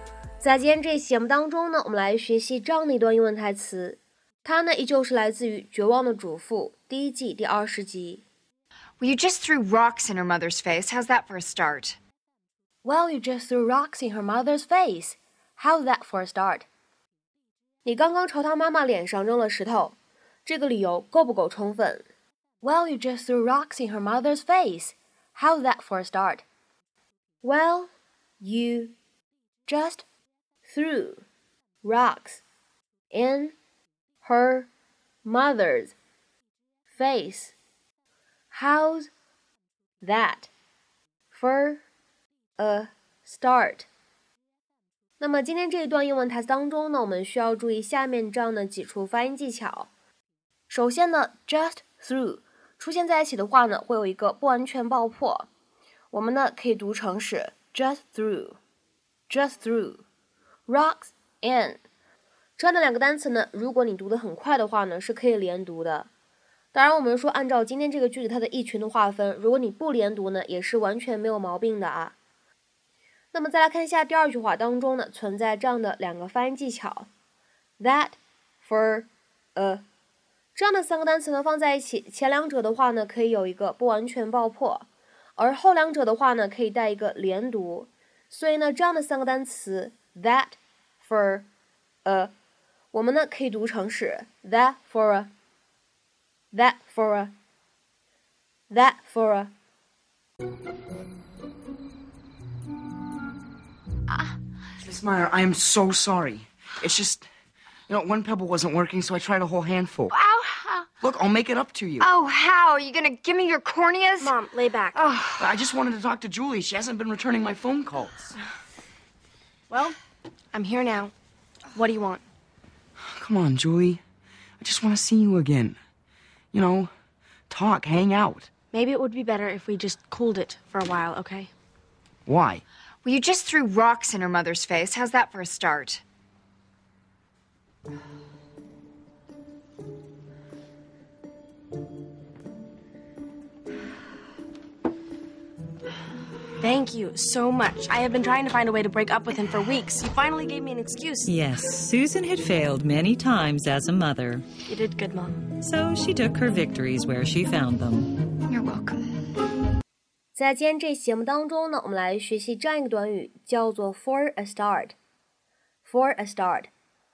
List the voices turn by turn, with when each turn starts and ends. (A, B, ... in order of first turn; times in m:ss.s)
0:00.4-0:08.2 A
0:09.0-0:12.0 B
0:12.8-0:16.7 A
0:17.8-0:22.0 A
0:22.6-0:26.4 A
0:27.4-0:28.9 A
0:29.7-0:30.0 A
0:30.6-0:31.2 A
0:31.8-0:32.4 A
0:33.1-0:33.5 A
0:34.2-0:34.7 A
0:35.2-0:36.0 A
0:36.9-0:37.5 A
0:38.5-0:39.1 A
0:40.0-0:40.5 A
0:41.3-0:41.8 A
0:42.6-0:43.9 A
0:45.2-0:49.9 A
0:50.7-0:55.5 A
0:56.1-0:58.6 A
0:59.3-1:00.0 A
1:00.7-1:01.8 A
1:02.6-1:06.1 A
1:06.7-1:12.2 A
1:13.3-1:17.1 A
1:17.8-1:19.8 A
1:20.5-1:31.5 A
1:32.0-1:32.3 A
1:32.9-1:35.3 A
1:36.5-1:37.3 A
1:38.7-1:39.5 A
1:44.8-1:47.3 C
1:47.9-1:50.1 C
1:51.0-1:52.1 C
1:52.0-1:54.4 B
1:54.2-1:55.3 D
1:55.4-1:58.3 C
1:59.7-2:00.0 D
2:00.5-2:01.1 D
2:01.7-2:02.2 D
2:03.0-2:04.0 C
2:04.6-2:05.8 C
2:06.5-2:06.9 C
2:07.5-2:08.5 C
2:08.7-2:11.5 D
2:12.2-2:12.6 C
2:13.0-2:16.0 B
2:26.6-2:31.3 D
2:31.3-2:34.4 E
2:34.6-2:35.4 D
2:35.6-2:38.1 E
2:38.5-2:39.0 B
2:40.3-2:45.0 A
2:45.8-2:46.7 A